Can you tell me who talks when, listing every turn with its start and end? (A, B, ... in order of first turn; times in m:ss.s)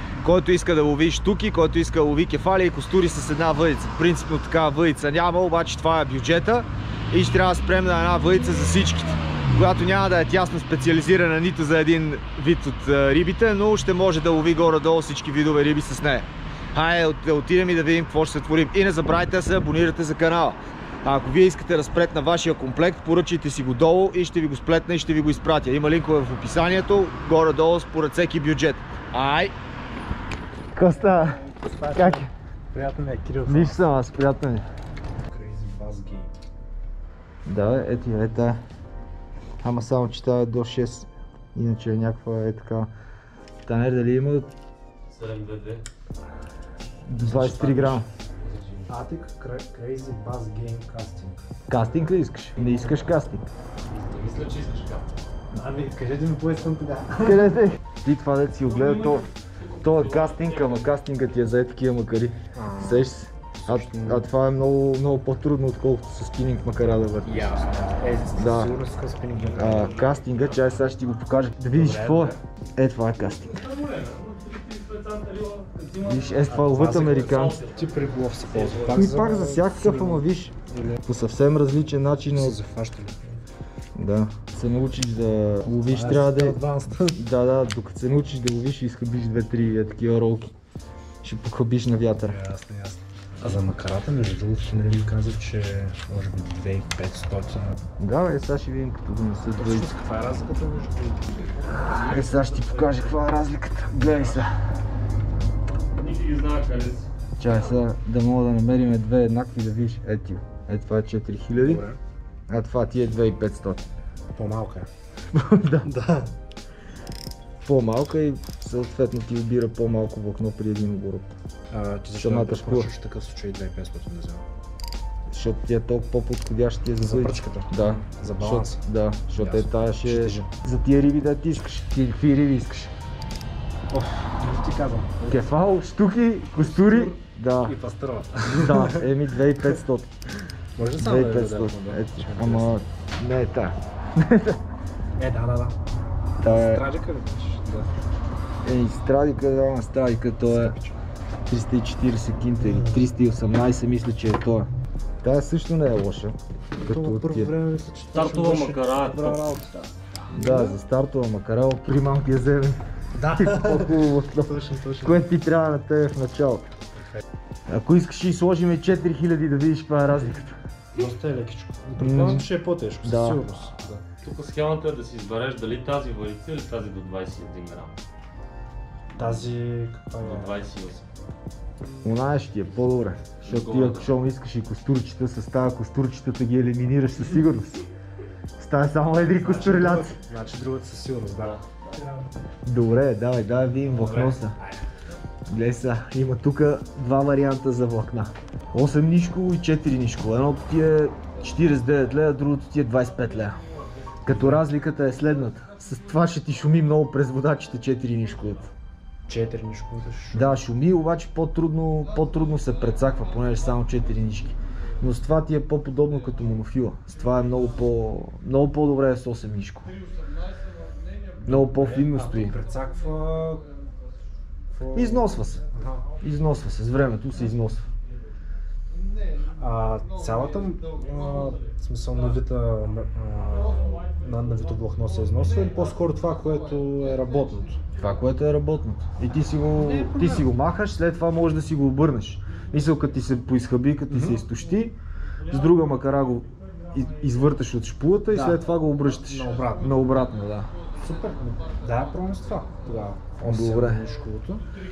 0:00.2-0:29.5 A
0:30.7-0:32.3 A
0:31.5-0:33.9 B
0:33.4-0:34.6 A
0:35.2-0:36.3 B
0:37.4-0:38.6 A
0:39.6-0:42.9 A
0:43.6-0:44.5 A
0:45.1-0:45.8 C
0:47.1-0:48.0 A
0:47.2-0:48.0 B
0:48.8-0:51.4 B
0:51.7-0:53.5 A
0:52.6-0:53.0 B
0:54.1-0:55.0 C
0:55.5-0:57.5 B
0:57.2-1:07.6 A
0:58.7-1:00.9 C
1:02.5-1:04.3 B
1:07.2-1:10.0 B
1:08.4-1:08.8 A
1:09.6-1:13.6 A
1:09.7-1:10.9 C
1:11.7-1:12.4 B
1:13.6-1:18.0 C
1:16.0-1:17.6 A
1:16.7-1:21.0 B
1:18.5-1:18.8 C
1:18.9-1:22.6 A
1:22.3-1:23.2 B
1:24.0-1:30.5 A
1:25.8-1:27.2 B
1:31.2-1:32.4 A
1:32.2-1:37.8 B
1:38.0-1:39.9 A
1:39.6-1:41.8 B
1:41.7-1:44.5 A
1:41.7-1:43.2 C
1:44.0-1:44.5 C
1:45.9-1:47.1 C
1:47.4-1:51.8 A
1:51.6-1:52.0 B
1:52.5-1:53.8 A
1:54.3-1:54.9 B
1:55.3-1:56.0 A
1:55.9-1:56.3 B
1:57.6-2:01.3 A
2:01.7-2:04.4 B
2:02.2-2:02.9 A
2:05.3-2:12.9 A
2:07.0-2:08.8 B
2:09.4-2:10.5 B
2:13.9-2:15.5 B
2:15.3-2:17.8 A
2:16.6-2:19.1 B
2:18.5-2:20.1 A
2:20.8-2:22.8 B
2:21.0-2:24.6 A
2:25.2-2:25.8 B
2:26.4-2:26.8 A
2:26.4-2:27.9 B
2:28.6-2:30.8 A
2:30.5-2:31.0 B
2:31.5-2:34.7 A
2:32.6-2:33.0 B
2:35.2-2:37.5 A
2:36.8-2:40.8 B
2:38.1-2:39.4 C
2:40.3-2:42.8 A
2:43.1-2:45.2 B
2:43.3-2:46.7 A
2:47.7-2:50.6 A
2:50.9-2:54.0 B
2:52.0-2:52.4 A
2:53.0-2:53.4 A
2:54.2-2:58.0 C
2:59.2-3:00.6 B
3:00.2-3:01.1 C
3:02.0-3:07.8 A
3:03.4-3:04.1 C
3:08.6-3:10.2 A
3:09.4-3:11.6 B
3:12.6-3:14.5 A
3:13.9-3:14.5 B
3:15.5-3:23.6 A
3:24.2-3:28.7 A
3:24.3-3:24.6 B
3:29.3-3:30.6 B
3:30.3-3:39.9 A
3:41.4-3:42.5 A
3:41.4-3:43.6 B
3:44.7-3:46.0 B
3:44.9-3:45.6 A
3:46.2-3:47.8 A
3:49.6-3:57.8 B
3:58.0-4:04.9 A
3:59.8-4:00.5 B
4:04.1-4:04.4 B
4:05.5-4:10.7 A
4:08.3-4:08.6 B
4:09.2-4:09.9 B
4:11.0-4:14.6 B
4:13.4-4:14.0 A